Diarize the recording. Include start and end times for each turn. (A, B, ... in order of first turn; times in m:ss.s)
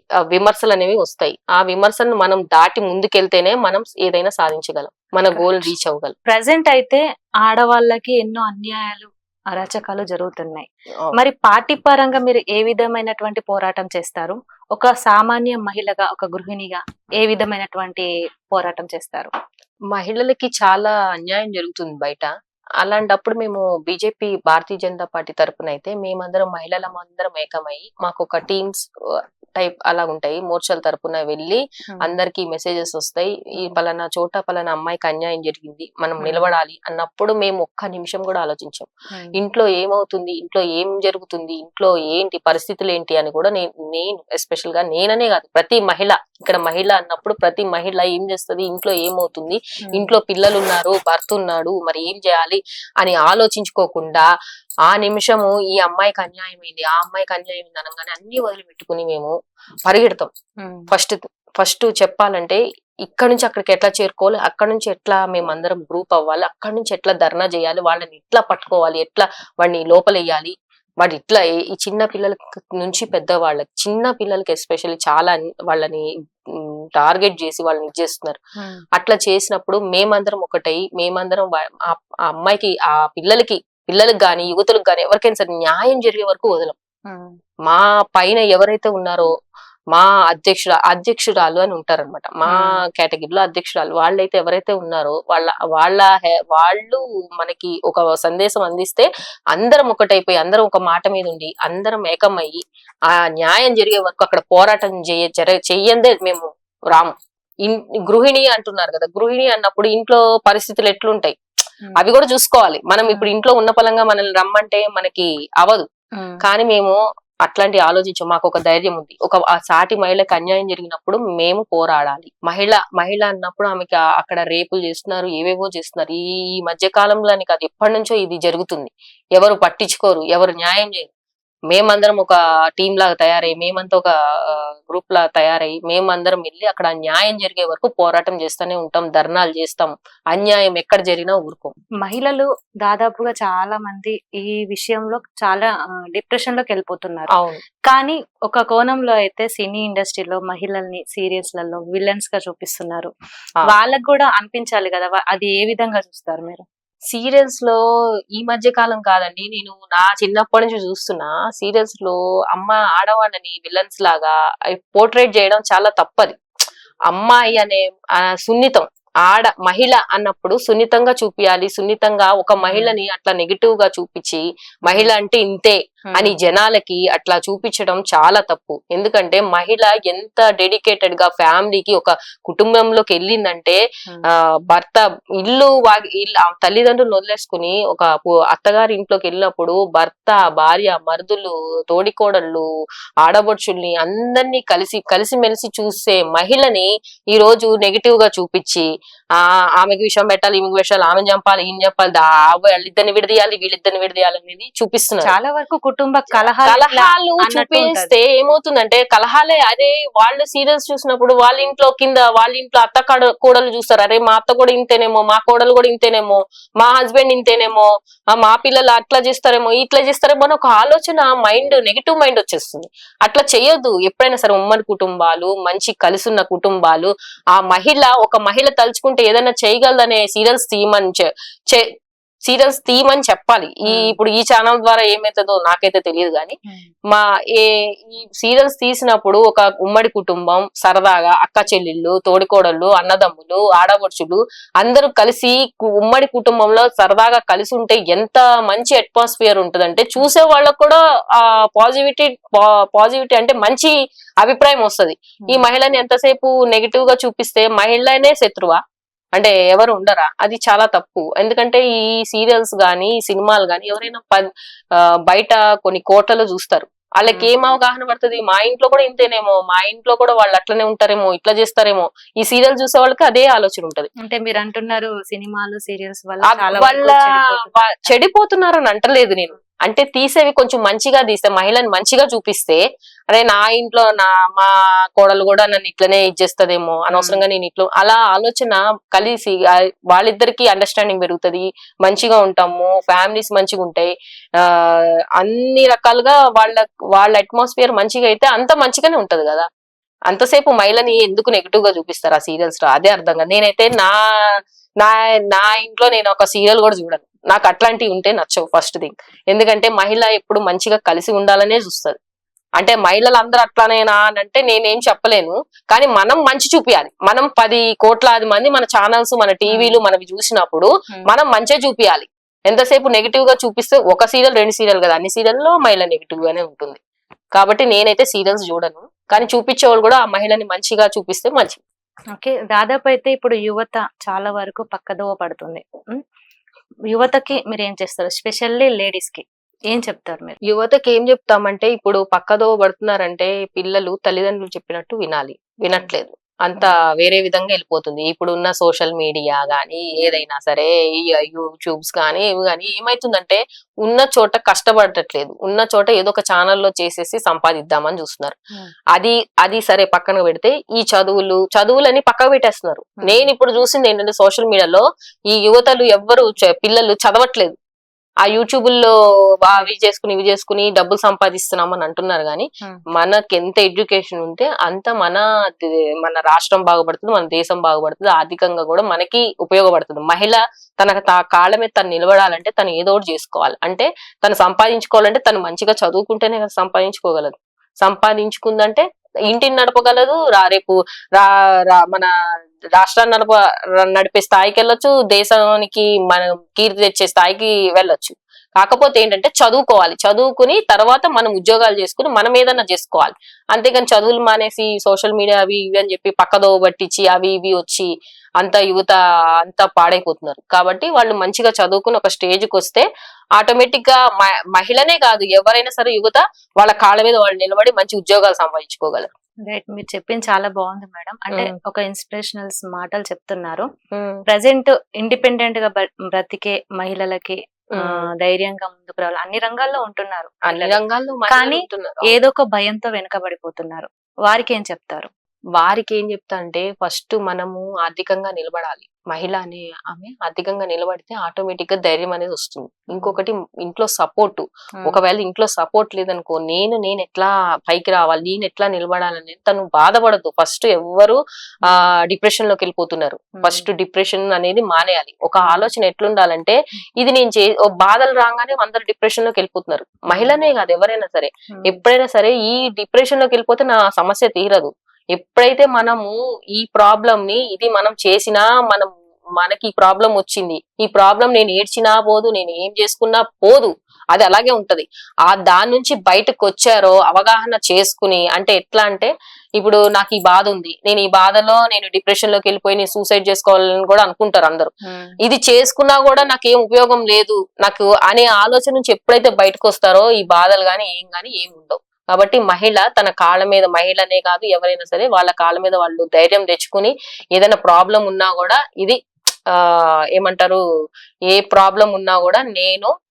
0:00.3-0:06.1 A
0:05.3-0:05.7 B
0:06.3-0:19.3 B
0:19.9-0:22.3 A
0:22.8-0:28.8 A
0:29.6-0:54.3 A
0:36.2-0:36.4 B
0:49.8-0:50.1 B
0:54.9-0:59.3 A
0:59.8-1:00.3 A
1:00.6-1:00.9 B
1:00.9-1:18.4 A
1:19.0-1:26.8 A
1:27.1-1:27.3 B
1:27.6-1:29.3 A
1:29.9-1:42.6 A
1:32.5-1:32.8 B
1:43.4-1:47.1 A
1:47.6-1:51.3 A
1:52.0-1:55.8 A
1:56.4-2:11.1 A
2:11.7-2:21.8 A
2:22.0-2:27.3 B
2:27.3-2:27.6 A
2:27.9-2:33.1 B
2:33.7-2:36.6 B
2:37.1-2:37.8 A
2:38.4-2:46.4 A
2:47.1-3:03.8 A
2:52.6-2:52.9 B
2:54.8-2:55.1 B
3:04.7-3:12.6 A
3:13.2-3:25.3 A
3:25.2-3:28.1 B
3:26.6-3:51.8 A
3:52.5-3:56.5 A
3:53.8-3:54.2 B
3:57.1-4:18.8 A
4:15.4-4:15.7 B
4:19.4-4:24.4 A
4:25.0-4:34.1 A
4:34.2-4:37.7 B
4:36.5-4:59.6 A
4:47.1-4:47.4 B
5:00.3-5:12.2 A
5:12.8-5:27.0 A
5:19.7-5:20.0 B
5:27.5-5:31.8 A
5:32.3-5:36.2 B
5:37.1-5:40.6 B
5:40.7-5:58.6 A
5:59.1-6:07.8 A
6:03.2-6:03.5 B
6:08.4-6:09.1 A
6:09.6-6:32.3 A
6:32.9-6:48.1 A
6:48.6-6:53.0 A
6:53.6-6:59.3 A
6:59.7-7:03.8 B
7:04.1-7:04.4 A
7:04.5-7:15.3 B
7:07.9-7:08.2 A
7:10.7-7:12.4 A
7:15.8-8:04.9 A
7:31.8-7:32.1 B
7:33.6-7:33.8 B
7:35.6-7:35.9 B
7:40.3-7:40.6 B
7:41.7-7:42.0 B
8:05.0-8:05.3 B
8:05.4-8:20.8 A
8:21.5-8:23.1 A